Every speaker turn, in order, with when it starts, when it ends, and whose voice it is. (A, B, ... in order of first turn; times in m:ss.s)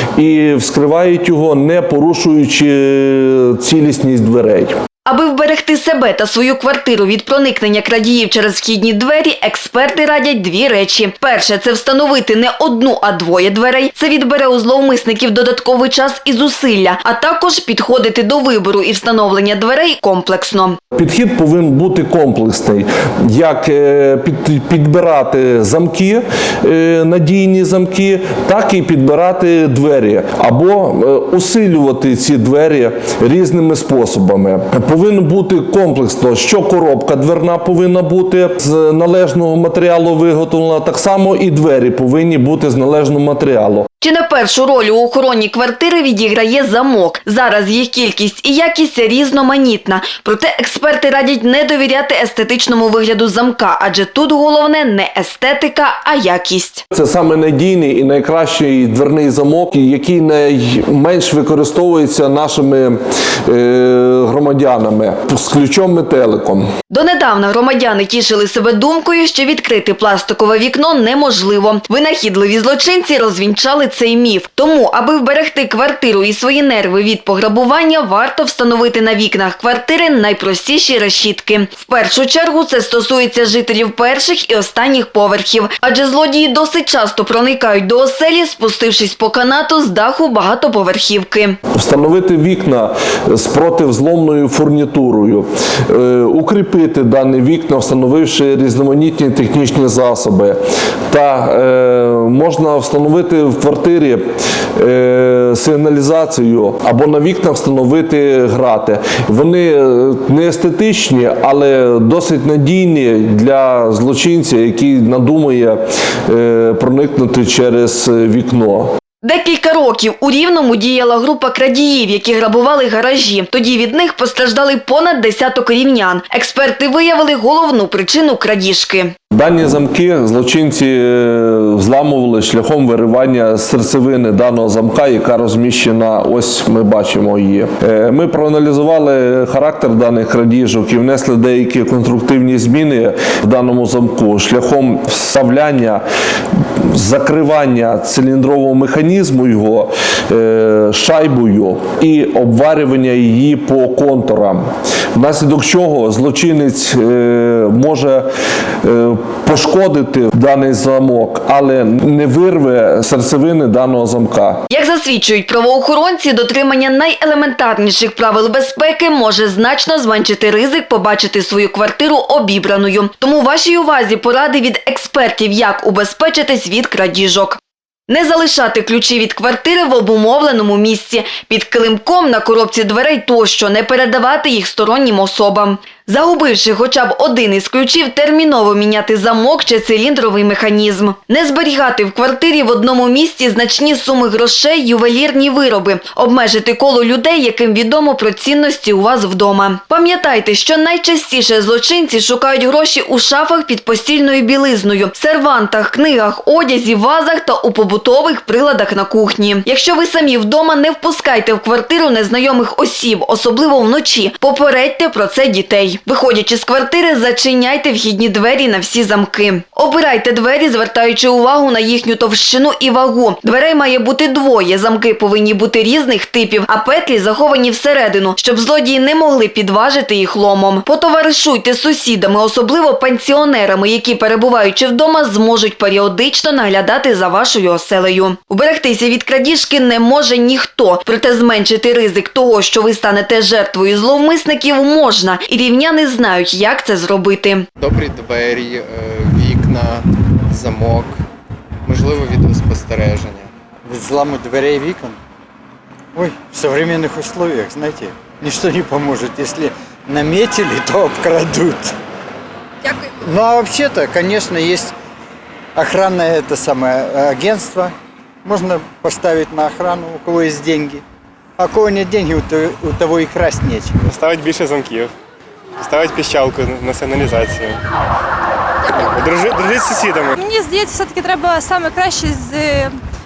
0:00.2-0:04.7 A
0:05.0-0:20.8 B
0:20.9-0:43.9 A
0:44.0-0:56.8 B
0:56.9-1:06.7 A
1:06.9-1:31.6 B
1:31.7-1:40.6 A
1:41.1-1:58.9 A
1:59.2-2:09.1 B
2:09.3-2:26.0 A
2:26.8-2:38.3 A
2:38.8-2:44.6 A
2:44.7-4:07.7 B
4:07.8-4:11.2 C
4:11.8-4:13.5 C
4:13.8-4:15.2 D
4:16.1-4:21.9 D
4:23.1-4:24.9 D
4:25.7-4:27.9 D
4:28.4-4:31.0 D
4:31.6-4:34.0 D
4:34.1-4:35.1 E
4:35.8-4:37.8 E
4:38.9-4:40.3 E
4:40.3-4:42.9 F